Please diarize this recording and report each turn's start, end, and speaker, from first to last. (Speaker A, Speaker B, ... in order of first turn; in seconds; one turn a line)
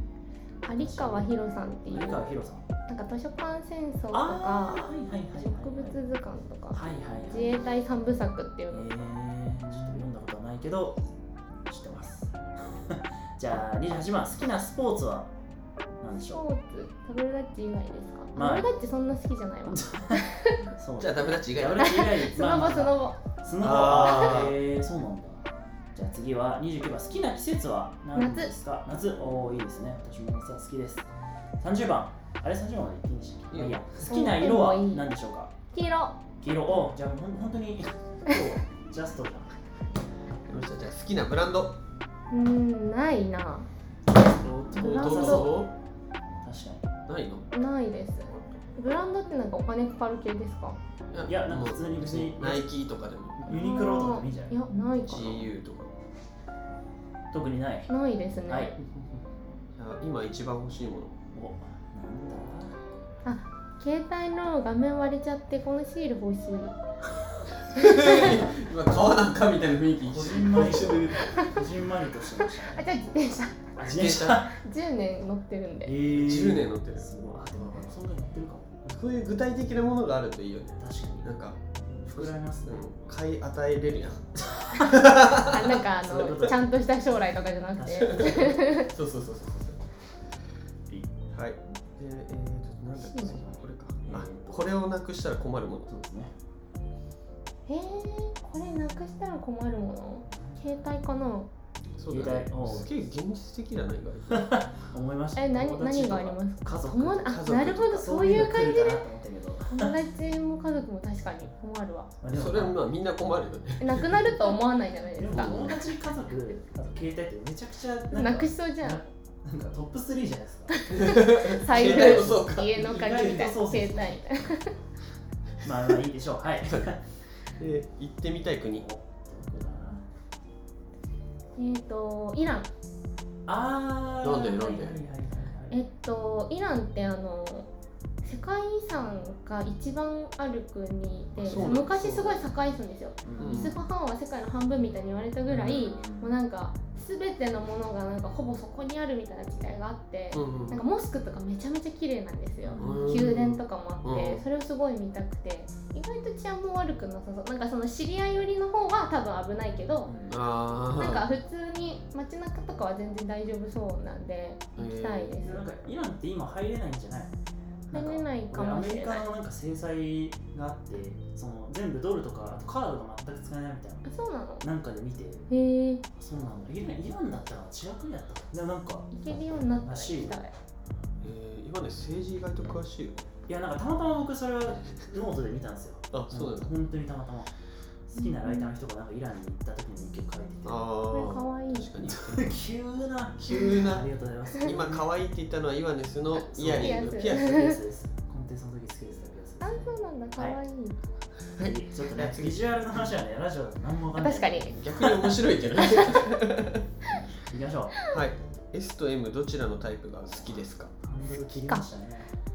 Speaker A: 0.6-2.3
Speaker B: 0.8-2.7
Speaker A: 2.9-8.9
Speaker B: 4.1-6.0
Speaker B: 6.7-7.7
Speaker B: 8.7-11.0
Speaker B: 11.7-15.3
Speaker B: 16.0-16.4
Speaker A: 16.3-20.6
Speaker B: 18.3-18.7
Speaker B: 19.7-31.1
Speaker C: 21.0-21.9
Speaker A: 21.8-23.2
Speaker C: 23.6-24.6
Speaker A: 24.0-24.3
Speaker A: 28.1-28.5
Speaker B: 31.6-35.5
Speaker C: 33.5-33.8
Speaker A: 34.0-35.1
Speaker A: 35.7-36.2
Speaker B: 36.4-39.5
Speaker C: 40.5-41.7
Speaker A: 42.3-43.7
Speaker B: 44.1-45.6
Speaker A: 44.7-45.6
Speaker C: 44.8-45.7
Speaker B: 46.4-46.9
Speaker C: 47.1-47.5
Speaker A: 47.5-50.8
Speaker C: 48.3-48.6
Speaker C: 51.1-53.5
Speaker B: 51.3-52.7
Speaker B: 53.4-54.5
Speaker A: 53.5-55.5
Speaker C: 55.0-55.9
Speaker B: 57.3-57.9
Speaker A: 57.9-58.7
Speaker B: 58.5-58.7
Speaker C: 58.8-59.2
Speaker C: 59.8-61.1
Speaker B: 61.3-62.8
Speaker A: 63.2-66.7
Speaker C: 67.7-71.3
Speaker A: 67.8-68.4
Speaker B: 68.0-68.5
Speaker B: 70.0-72.9
Speaker A: 72.6-73.7
Speaker C: 73.8-74.5
Speaker B: 73.8-74.5
Speaker A: 74.5-75.9
Speaker B: 75.8-78.8
Speaker C: 76.1-77.9
Speaker C: 78.8-81.6
Speaker B: 80.8-81.3
Speaker B: 82.0-82.8
Speaker C: 82.1-85.8
Speaker B: 84.4-85.0
Speaker A: 85.5-88.9
Speaker B: 85.7-86.6
Speaker B: 87.8-88.5
Speaker C: 88.0-89.8
Speaker C: 91.3-95.9
Speaker A: 93.0-93.4
Speaker B: 94.0-94.7
Speaker B: 95.9-96.3
Speaker A: 97.7-101.5
Speaker B: 100.3-100.6
Speaker C: 102.0-104.7
Speaker B: 102.1-102.9
Speaker B: 104.3-107.4
Speaker A: 105.3-109.0
Speaker C: 107.1-108.1
Speaker B: 107.9-109.9
Speaker A: 109.7-112.1
Speaker B: 112.2-112.8
Speaker C: 112.3-114.3
Speaker A: 113.8-115.7
Speaker B: 115.1-120.9
Speaker C: 115.3-115.7
Speaker A: 118.1-119.0
Speaker A: 120.7-124.7
Speaker C: 120.9-123.3
Speaker B: 121.7-124.3
Speaker B: 125.6-127.0
Speaker C: 127.5-128.8
Speaker B: 128.8-130.0
Speaker A: 131.6-132.7
Speaker B: 133.4-135.8
Speaker C: 134.2-135.0
Speaker A: 135.7-137.7
Speaker A: 138.2-160.1
Speaker C: 141.4-142.4
Speaker B: 143.2-143.7
Speaker C: 143.4-143.7
Speaker B: 145.5-146.3
Speaker C: 150.3-150.8
Speaker B: 152.6-153.3
Speaker C: 152.8-154.4
Speaker B: 160.0-160.4
Speaker C: 160.3-161.3
Speaker A: 160.9-165.7
Speaker C: 164.8-165.3
Speaker B: 165.4-167.3
Speaker B: 167.9-174.1
Speaker A: 167.9-169.3
Speaker A: 174.0-174.7
Speaker B: 174.6-175.5
Speaker A: 175.5-176.0
Speaker B: 176.1-180.4
Speaker A: 179.1-180.5
Speaker C: 181.2-183.2
Speaker B: 183.5-187.5
Speaker C: 186.1-186.7
Speaker B: 188.1-190.9
Speaker A: 188.2-188.7
Speaker C: 190.6-192.6
Speaker A: 191.1-191.9
Speaker B: 192.0-195.1
Speaker C: 193.4-194.0
Speaker C: 194.6-197.8
Speaker A: 196.4-197.8
Speaker B: 196.6-199.8
Speaker A: 199.6-201.0
Speaker C: 201.5-203.1
Speaker B: 201.6-205.1
Speaker A: 204.2-204.8
Speaker C: 204.7-206.8
Speaker A: 205.8-206.2
Speaker B: 207.5-208.0
Speaker C: 208.1-210.9
Speaker B: 210.4-212.3
Speaker A: 211.5-211.8